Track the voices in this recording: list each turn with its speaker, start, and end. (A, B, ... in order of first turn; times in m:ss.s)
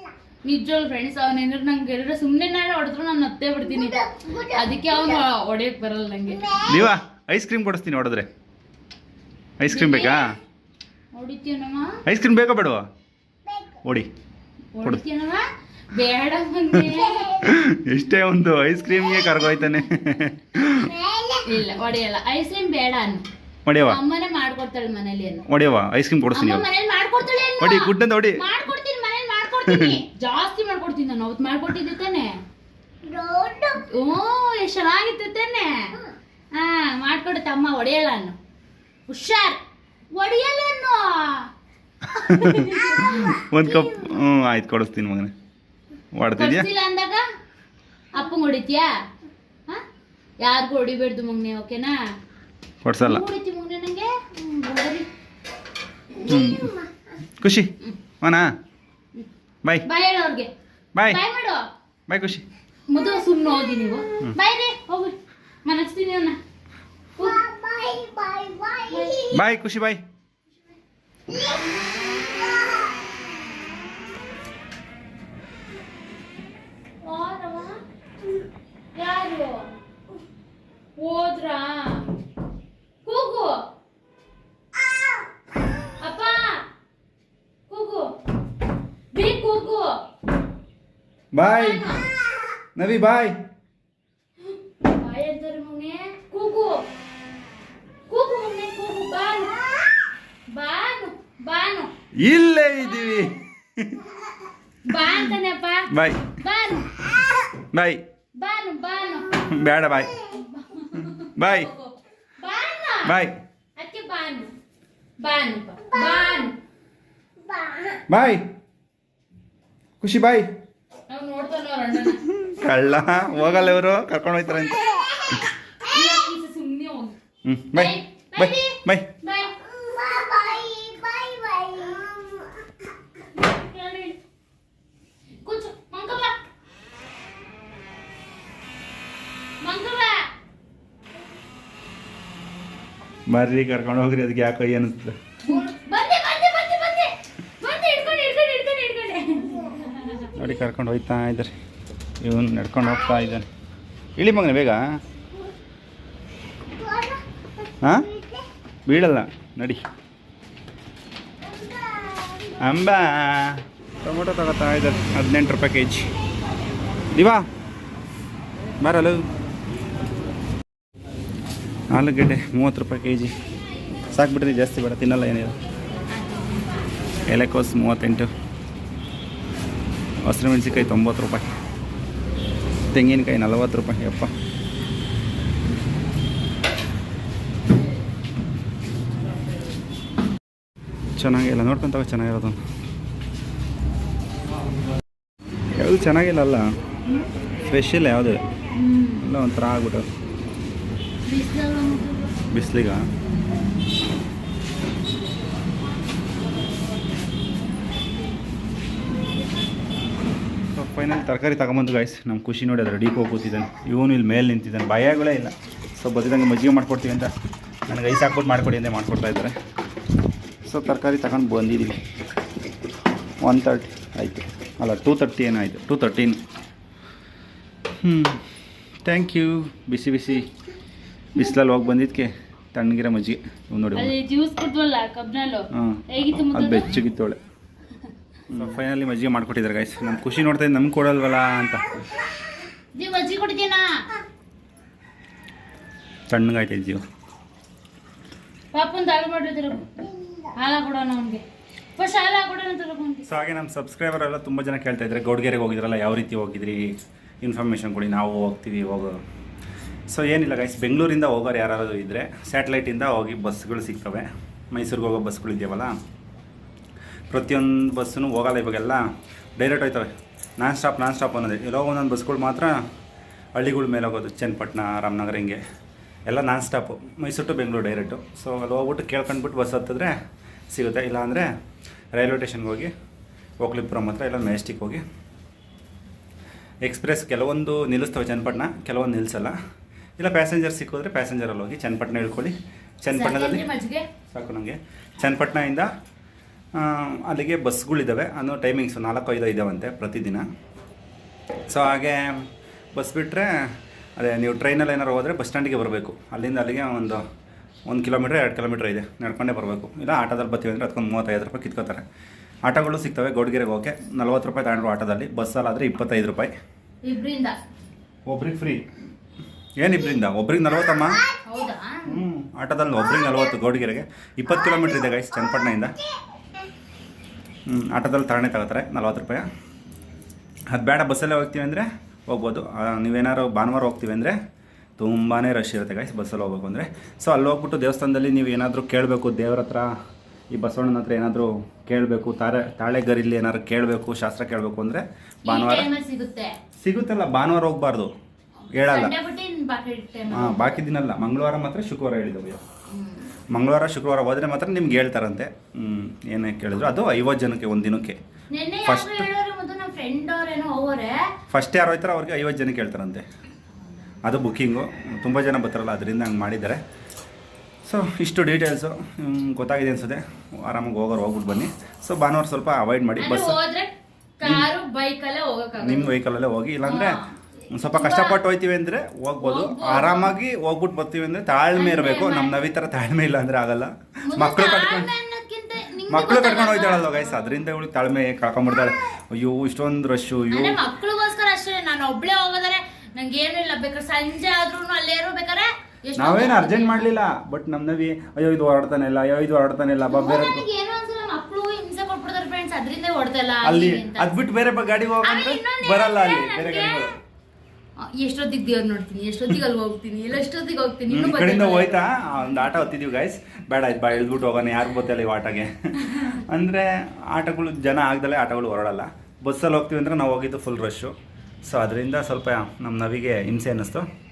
0:00.4-0:06.8 A
0:06.6-0:08.3 B
0:09.6-0:10.3 B
0:09.6-0:10.4 A
0:11.1-0:12.0 A
0:12.1-0:12.8 B
0:14.7-0:17.5 A
0:17.4-0:21.0 B
0:20.9-0:21.4 C
0:21.4-0:23.2 A
0:23.7-0:24.0 B
0:23.8-0:25.5 A
0:25.5-0:26.6 B
0:26.3-0:32.4 A
0:27.6-0:28.4 B
0:29.7-0:30.0 B
0:33.0-0:33.8 C
0:33.7-0:36.0 A
0:36.5-0:38.4 A
0:39.1-0:39.6 A
0:40.1-0:41.5 A
0:42.1-0:43.4 A
0:42.3-0:45.3 B
0:46.2-0:46.7 B
0:46.4-0:47.2 A
0:48.1-0:48.9 A
0:50.4-0:52.0 A
0:52.8-0:53.2 B
0:53.0-0:55.1 A
0:56.2-0:56.6 A
0:56.3-0:56.8 B
0:57.4-0:57.7 B
0:58.2-0:58.5 B
0:59.8-1:00.5 A
1:01.0-1:01.2 B
1:01.1-1:01.6 A
1:02.1-1:02.4 B
1:02.9-1:06.4 A
1:07.2-1:07.5 A
1:07.2-1:09.1 C
1:08.9-1:09.3 A
1:09.3-1:10.0 B
1:12.4-1:13.0 C
1:17.0-1:17.8 A
1:19.0-1:19.7 A
1:21.0-1:22.1 A
1:23.0-1:23.6 A
1:26.0-1:26.6 A
1:27.7-1:28.1 A
1:29.1-1:30.0 A
1:31.3-1:32.0 B
1:31.4-1:32.1 A
1:32.8-1:33.4 B
1:34.5-1:36.8 A
1:38.1-1:39.7 A
1:40.5-1:41.9 A
1:42.2-1:44.1 B
1:44.8-1:47.0 A
1:45.1-1:45.4 B
1:45.9-1:46.3 B
1:47.7-1:48.0 B
1:48.4-1:49.4 A
1:49.5-1:50.2 B
1:50.3-1:53.2 A
1:51.4-1:51.7 B
1:53.0-1:53.4 B
1:53.8-1:54.5 A
1:55.2-1:56.6 A
1:57.4-1:58.0 C
1:58.1-1:58.5 B
2:00.0-2:00.5 B
2:01.1-2:02.2 A
2:02.3-2:05.0 B
2:05.8-2:07.2 A
2:07.4-2:09.1 B
2:07.7-2:09.6 A
2:09.7-2:12.5 C
2:13.2-2:14.2 A
2:15.4-2:16.4 A
2:19.6-2:20.3 A
2:23.3-2:25.2 B
2:25.4-2:30.4 A
2:30.4-2:31.5 B
2:32.2-2:33.5 B
2:34.2-2:35.0 B
2:36.8-2:37.2 C
2:37.8-2:38.1 B
2:38.9-2:39.8 B
2:42.6-2:46.1 B
2:47.1-2:47.5 B
2:48.8-2:49.2 B
2:51.9-2:53.3 B
2:54.1-2:55.6 B
2:56.1-2:56.6 A
2:57.3-2:58.3 B
3:00.2-3:01.5 B
3:02.9-3:04.3 B
3:11.2-3:12.6 B
3:15.8-3:16.7 B
3:17.7-3:18.4 B
3:18.7-3:19.3 A
3:19.2-3:20.1 B
3:21.2-3:22.3 A
3:22.5-3:23.0 B
3:30.7-3:37.3 B
3:37.9-3:39.6 B
3:40.7-3:42.0 B
3:43.4-3:46.4 B
3:48.0-3:48.5 B
3:49.0-3:50.5 B
3:51.4-3:54.1 B
3:54.0-3:57.0 A
3:55.7-3:57.4 B
3:58.5-4:02.0 B
4:03.0-4:03.9 A
4:06.3-4:07.0 B
4:08.7-4:09.9 A
4:10.5-4:11.4 A
4:12.0-4:13.3 A
4:13.3-4:16.9 B
4:17.4-4:19.2 B
4:20.1-4:26.0 B
4:27.3-4:29.0 B
4:29.6-4:32.8 B
4:33.6-4:35.6 B
4:36.3-4:40.2 B
4:40.7-4:41.5 B
4:42.1-4:42.9 B
4:43.6-4:45.0 B
4:46.8-4:49.6 B
4:50.2-4:53.7 B
4:53.1-4:54.1 A
4:54.3-4:55.9 B
4:56.7-5:00.5 B
5:01.7-5:07.2 B
5:07.9-5:12.0 B
5:12.7-5:16.5 B
5:17.0-5:17.6 A
5:18.3-5:18.8 B
5:19.8-5:21.2 B
5:21.4-5:22.1 A
5:22.1-5:26.0 B
5:27.7-5:29.5 B
5:30.7-5:34.4 B
5:35.0-5:39.9 B
5:40.5-5:45.9 B
5:45.5-5:46.6 A
5:46.8-5:48.1 B
5:48.7-5:49.1 B
5:48.8-5:50.6 A
5:50.3-5:52.6 B
5:52.9-5:53.3 A
5:53.5-5:58.2 B
5:58.5-6:01.3 A
5:58.8-5:59.3 B
6:01.5-6:03.3 B
6:04.2-6:06.8 B
6:07.8-6:13.6 B
6:13.2-6:16.2 A
6:15.8-6:17.2 B
6:16.8-6:18.4 A
6:17.7-6:25.1 B
6:19.4-6:20.3 A
6:21.8-6:22.6 A
6:24.3-6:27.6 A
6:26.1-6:30.8 B
6:30.5-6:37.1 A
6:36.2-6:40.6 B
6:40.1-6:44.4 A
6:43.6-6:47.1 B
6:45.2-6:47.1 A
6:48.0-6:52.0 A
6:51.1-7:01.1 B
7:01.7-7:04.1 B